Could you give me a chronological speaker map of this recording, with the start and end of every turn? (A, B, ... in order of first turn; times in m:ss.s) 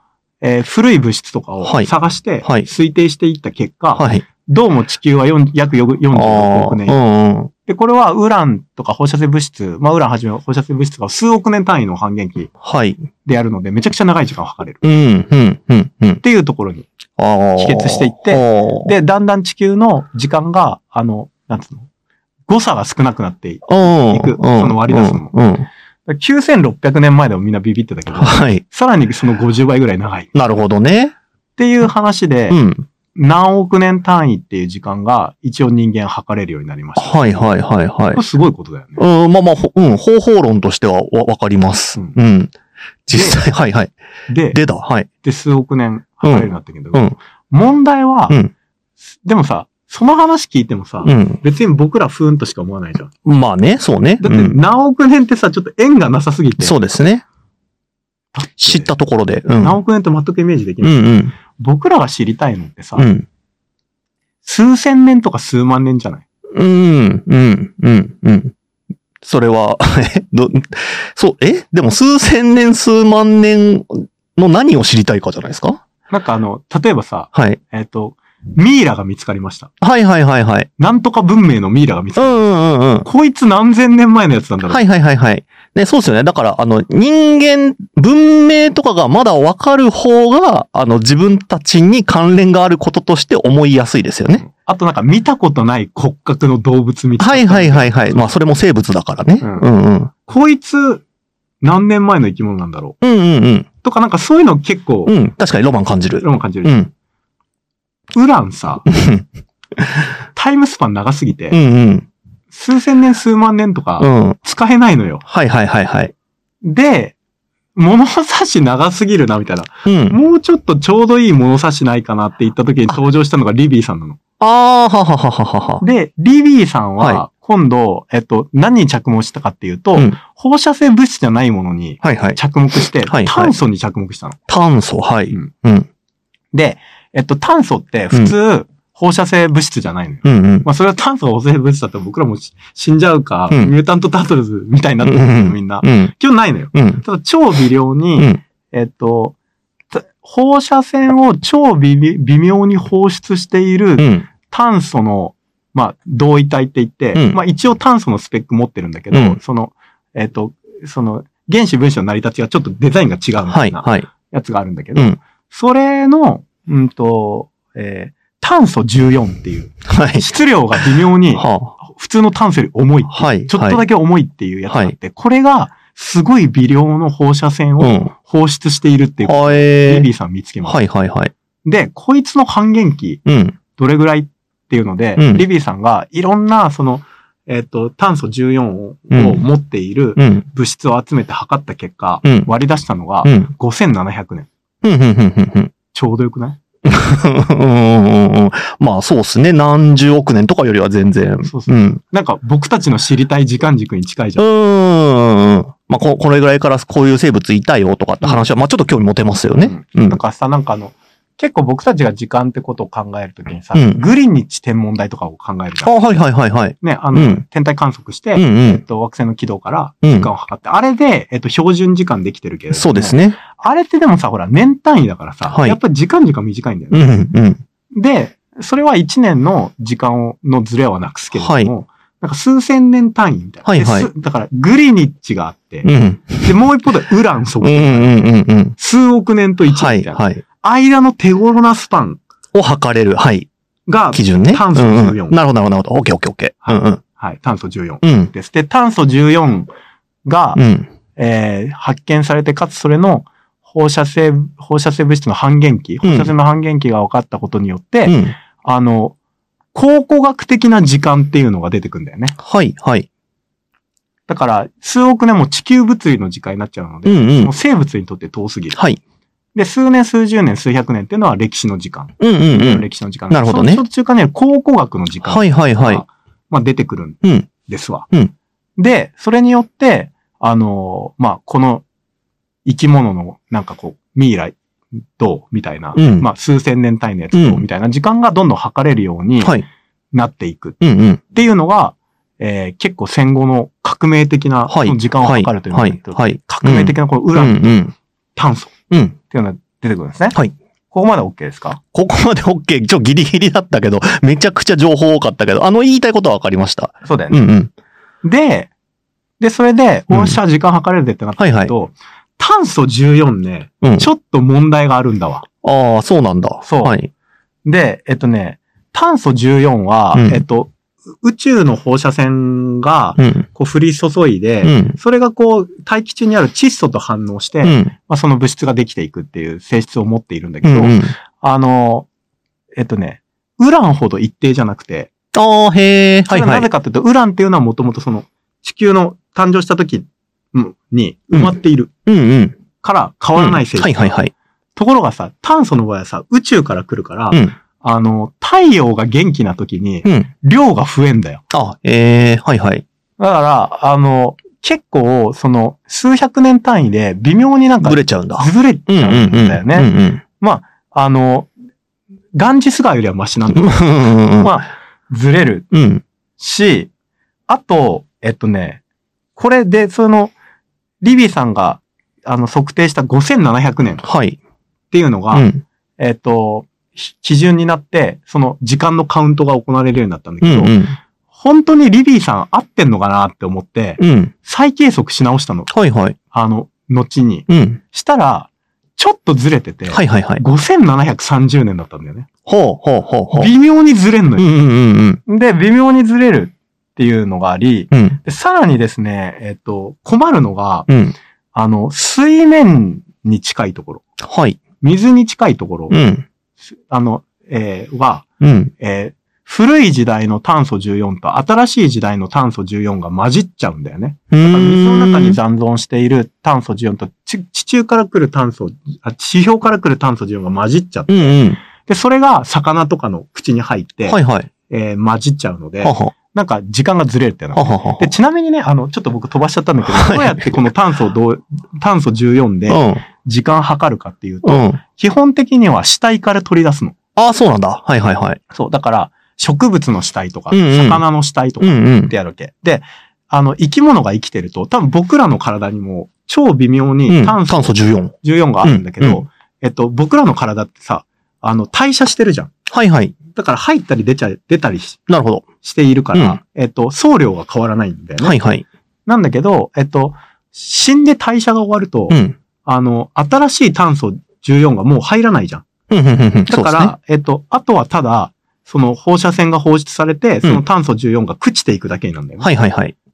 0:00.4-0:07.0 A
0:01.6-0:01.9 B
0:04.0-0:04.2 B
0:06.1-0:07.5 B
0:07.6-0:12.5 A
0:12.6-0:13.0 B
0:13.2-0:14.8 A
0:14.8-0:16.2 B
0:16.2-0:16.9 A
0:17.2-0:18.9 B
0:17.6-0:21.8 A
0:22.5-0:25.3 A
0:23.7-0:25.7 B
0:26.1-0:30.3 A
0:28.2-0:28.6 B
0:30.3-0:31.1 B
0:31.6-0:32.6 A
0:32.5-0:32.8 B
0:33.1-0:37.5 A
0:37.0-0:38.2 B
0:38.1-0:39.0 A
0:39.0-0:42.5 B
0:43.0-0:43.9 B
0:43.1-0:43.4 A
0:44.3-0:44.6 A
0:44.5-0:45.1 B
0:45.2-0:48.4 A
0:46.2-0:47.1 B
0:49.2-0:53.1 A
0:51.0-0:51.4 B
0:53.2-0:54.6 B
0:54.2-0:56.8 A
0:56.6-0:57.2 B
0:58.3-0:58.9 A
0:58.6-0:59.8 B
0:59.6-1:03.1 A
1:00.8-1:01.3 B
1:03.0-1:03.2 B
1:04.4-1:06.2 A
1:06.5-1:08.5 B
1:09.2-1:15.8 B
1:16.1-1:19.7 A
1:17.3-1:17.6 B
1:19.8-1:20.7 B
1:20.8-1:22.4 A
1:22.2-1:23.0 B
1:23.0-1:24.8 A
1:24.7-1:34.4 B
1:34.4-1:38.2 A
1:37.2-1:40.1 B
1:39.4-1:39.6 A
1:40.2-1:41.0 A
1:41.6-1:43.0 A
1:43.0-1:43.7 B
1:43.8-1:45.1 A
1:45.0-1:46.9 B
1:46.2-1:46.8 A
1:48.1-1:48.9 A
1:48.9-1:50.1 B
1:50.3-1:51.6 A
1:51.5-1:52.1 B
1:52.5-1:55.2 A
1:54.0-1:54.4 B
1:55.3-1:56.1 B
1:56.6-1:57.1 A
1:57.8-2:04.2 A
1:59.8-2:00.2 B
2:04.4-2:05.8 B
2:05.8-2:14.4 A
2:12.0-2:13.5 B
2:14.5-2:15.9 B
2:16.5-2:29.3 A
2:20.2-2:20.6 B
2:25.0-2:26.1 B
2:26.7-2:27.0 B
2:29.9-3:00.8 A
2:34.0-2:34.2 B
2:43.5-2:44.1 B
2:49.8-2:50.8 B
2:51.4-2:51.7 B
2:53.1-2:53.8 B
2:54.7-2:54.9 B
2:57.8-2:58.1 B
2:59.2-3:00.1 B
3:00.6-3:01.3 B
3:01.6-3:03.2 A
3:03.2-3:03.6 B
3:03.7-3:14.5 A
3:05.2-3:05.4 B
3:09.1-3:09.4 B
3:10.2-3:10.4 B
3:13.2-3:13.5 B
3:14.8-3:15.7 B
3:15.9-3:16.6 A
3:16.8-3:22.0 B
3:21.4-3:24.4 A
3:24.4-3:30.2 B
3:28.2-3:28.5 A
3:29.6-3:36.0 A
3:33.7-3:34.0 B
3:35.8-3:37.4 B
3:36.8-3:47.1 A
3:38.4-3:38.8 B
3:40.0-3:40.3 B
3:42.7-3:43.4 B
3:45.5-3:45.8 B
3:46.9-3:47.6 B
3:47.9-4:02.2 A
3:51.4-3:51.7 B
3:53.6-3:54.1 B
3:55.8-3:56.6 B
3:57.6-3:58.8 B
3:59.7-4:00.4 B
4:02.5-4:03.5 B
4:03.9-4:05.4 A
4:04.1-4:07.0 B
4:06.6-4:09.7 A
4:08.0-4:08.3 B
4:10.2-4:10.6 A
4:10.6-4:10.9 B
4:11.1-4:19.1 A
4:16.0-4:16.3 B
4:18.0-4:18.4 B
4:19.7-4:22.4 A
4:22.4-4:23.1 B
4:24.3-4:28.8 A
4:27.0-4:27.5 B
4:29.5-4:38.1 A
4:32.2-4:33.8 B
4:35.3-4:36.0 B
4:37.2-4:37.5 B
4:38.8-4:41.8 A
4:42.6-4:44.6 A
4:45.2-4:49.6 A
4:46.0-4:46.3 B
4:47.3-4:47.6 B
4:50.1-4:50.8 A
4:50.8-4:51.2 B
4:51.3-4:58.7 A
4:54.7-4:57.9 B
4:58.9-4:59.2 B
4:59.3-5:00.4 A
5:00.9-5:01.8 A
5:01.9-5:07.7 B
5:07.0-5:07.4 A
5:08.2-5:08.7 A
5:09.4-5:15.4 A
5:10.1-5:10.4 B
5:11.4-5:11.7 B
5:15.6-5:17.1 B
5:16.6-5:17.0 A
5:17.6-5:32.1 A
5:20.1-5:20.4 B
5:23.2-5:23.4 B
5:24.6-5:25.0 B
5:27.6-5:27.9 B
5:30.6-5:31.1 B
5:32.8-5:35.1 A
5:35.3-5:36.7 B
5:36.3-5:41.9 A
5:42.1-5:42.6 B
5:42.8-5:44.2 A
5:43.3-5:44.3 B
5:44.8-5:51.4 A
5:51.5-5:52.8 B
5:53.2-6:01.5 A
5:57.8-6:00.2 B
6:02.3-6:03.9 A
6:03.5-6:04.6 B
6:04.4-6:05.7 A
6:05.7-6:06.0 B
6:06.4-6:06.9 A
6:07.5-6:08.8 A
6:09.4-6:10.3 A
6:11.0-6:14.0 A
6:14.0-6:14.4 B
6:14.9-6:20.8 A
6:15.3-6:15.6 B
6:20.4-6:21.0 B
6:21.3-6:32.3 A
6:24.0-6:24.3 B
6:25.7-6:26.1 B
6:27.5-6:27.8 B
6:29.9-6:30.4 B
6:32.4-6:33.5 B
6:33.3-6:34.5 A
6:34.4-6:35.2 B
6:35.2-6:40.9 A
6:37.9-6:38.2 B
6:40.9-6:41.1 B
6:41.5-6:44.0 A
6:44.2-6:44.6 B
6:44.8-6:46.0 A
6:45.9-6:46.2 B
6:46.9-6:48.2 A
6:48.4-6:48.7 B
6:48.8-7:04.2 A
6:54.3-6:55.4 B
7:01.1-7:01.6 B
7:04.1-7:04.5 B
7:04.7-7:16.9 A
7:05.8-7:06.1 B
7:07.5-7:08.1 B
7:09.9-7:10.5 B
7:12.7-7:13.0 B
7:14.4-7:14.8 B
7:17.2-7:18.4 B
7:18.5-7:32.5 A
7:20.5-7:21.0 B
7:21.6-7:22.1 B
7:27.1-7:29.2 B
7:32.7-7:33.2 B
7:33.3-7:35.0 A
7:35.1-7:35.5 B
7:35.6-7:38.4 A
7:36.1-7:36.4 B
7:38.2-7:38.6 B
7:39.1-7:45.7 A
7:42.1-7:42.4 B
7:45.9-7:46.9 B
7:46.5-7:52.5 A
7:52.4-7:52.9 B